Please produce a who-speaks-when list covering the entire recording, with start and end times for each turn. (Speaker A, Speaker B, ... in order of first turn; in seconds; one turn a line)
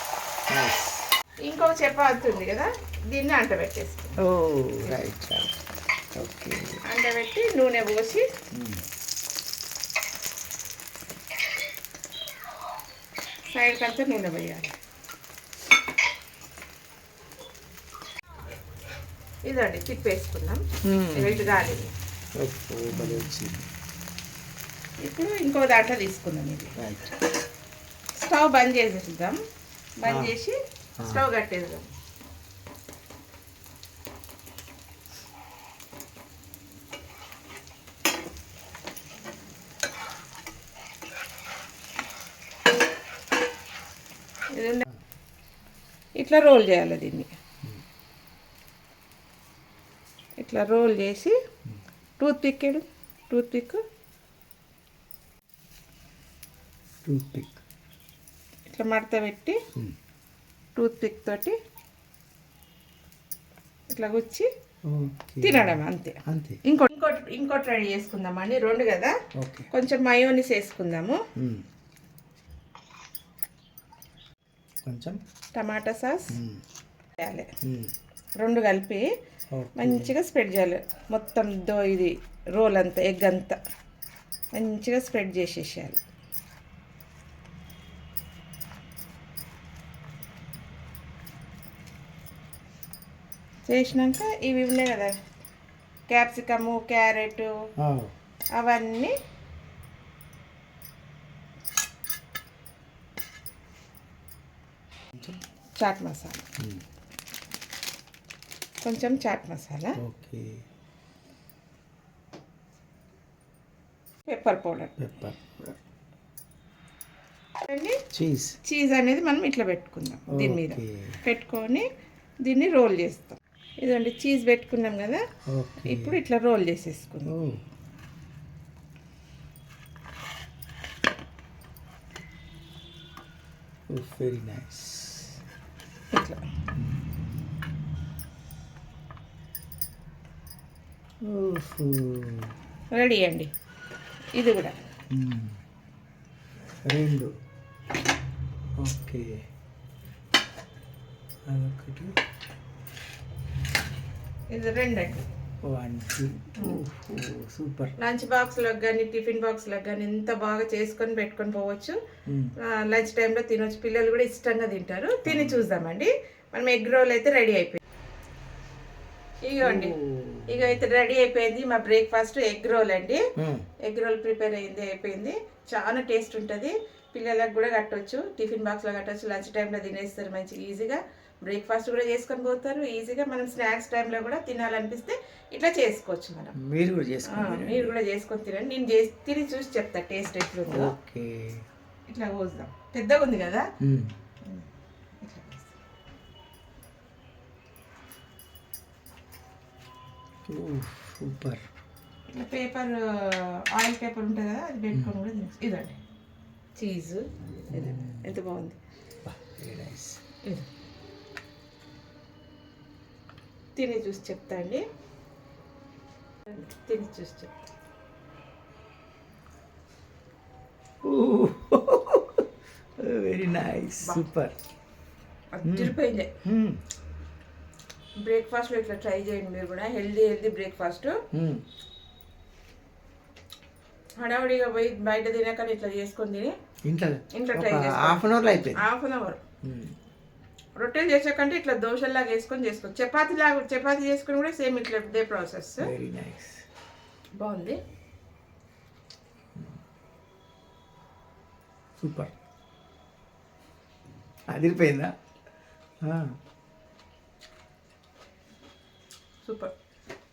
Speaker A: 0.5-1.1
Speaker B: 1.5-4.2
Speaker A: 4.2-5.5
Speaker A: 6.2-6.8
Speaker B: 6.8-8.2
Speaker A: 8.5-8.8
Speaker B: 13.5-14.8
Speaker B: 19.5-21.9
Speaker A: 20.8-21.8
Speaker A: 22.4-23.7
Speaker B: 22.9-23.3
Speaker B: 25.0-26.7
Speaker A: 26.8-27.2
Speaker B: 28.2-29.4
Speaker B: 30.0-31.9
Speaker A: 30.1-30.4
Speaker A: 31.0-31.2
Speaker B: 44.5-44.9
Speaker B: 46.2-47.3
Speaker B: 50.4-51.4
Speaker B: 52.2-53.8
Speaker A: 57.0-57.6
Speaker B: 58.7-59.6
Speaker B: 60.8-61.6
Speaker B: 63.9-64.5
Speaker A: 64.8-66.6
Speaker B: 65.4-69.2
Speaker A: 69.4-69.7
Speaker B: 69.7-71.2
Speaker A: 71.4-71.6
Speaker A: 74.8-75.2
Speaker B: 75.6-76.4
Speaker A: 76.3-76.6
Speaker B: 77.2-77.5
Speaker A: 77.6-77.9
Speaker B: 78.4-79.1
Speaker A: 79.5-80.1
Speaker B: 79.8-83.6
Speaker B: 84.6-86.0
Speaker B: 93.7-95.2
Speaker B: 96.1-97.5
Speaker A: 97.8-98.1
Speaker B: 98.6-99.1
Speaker A: 105.2-105.4
Speaker B: 105.8-106.4
Speaker B: 108.8-110.0
Speaker A: 110.0-110.6
Speaker B: 114.3-114.9
Speaker A: 115.0-115.8
Speaker B: 117.7-118.0
Speaker A: 118.1-118.6
Speaker B: 118.7-121.9
Speaker A: 120.3-121.2
Speaker B: 122.4-125.2
Speaker A: 125.5-126.2
Speaker B: 125.8-127.3
Speaker A: 127.3-127.6
Speaker A: 133.9-135.3
Speaker B: 136.1-136.4
Speaker A: 141.2-142.5
Speaker B: 142.9-143.5
Speaker B: 144.4-144.8
Speaker A: 145.1-145.6
Speaker A: 146.8-147.3
Speaker A: 148.8-149.3
Speaker A: 151.5-152.1
Speaker B: 154.5-155.3
Speaker A: 155.7-157.9
Speaker B: 156.6-156.8
Speaker B: 158.0-162.0
Speaker A: 162.3-162.5
Speaker B: 162.6-167.8
Speaker A: 165.2-165.7
Speaker B: 169.4-170.0
Speaker A: 169.6-170.8
Speaker B: 170.5-173.2
Speaker A: 173.4-173.7
Speaker B: 173.8-186.6
Speaker A: 186.6-187.9
Speaker B: 187.3-190.9
Speaker A: 190.7-191.6
Speaker B: 192.1-193.7
Speaker A: 193.8-194.1
Speaker B: 195.2-195.7
Speaker A: 200.5-201.7
Speaker B: 202.3-206.0
Speaker B: 206.8-208.8
Speaker A: 207.7-208.3
Speaker A: 209.2-210.2
Speaker B: 213.8-214.8
Speaker B: 216.5-217.5
Speaker A: 221.0-222.5
Speaker A: 223.0-224.6
Speaker B: 225.5-226.3
Speaker A: 225.6-226.8
Speaker B: 228.2-231.2
Speaker A: 231.3-231.6
Speaker B: 234.2-236.5
Speaker A: 236.8-238.8
Speaker B: 237.3-239.4
Speaker A: 239.6-239.9
Speaker B: 240.8-245.9
Speaker A: 245.8-246.7
Speaker B: 247.4-247.8
Speaker A: 252.0-252.3
Speaker A: 254.5-255.1
Speaker A: 256.0-256.3
Speaker B: 259.4-259.7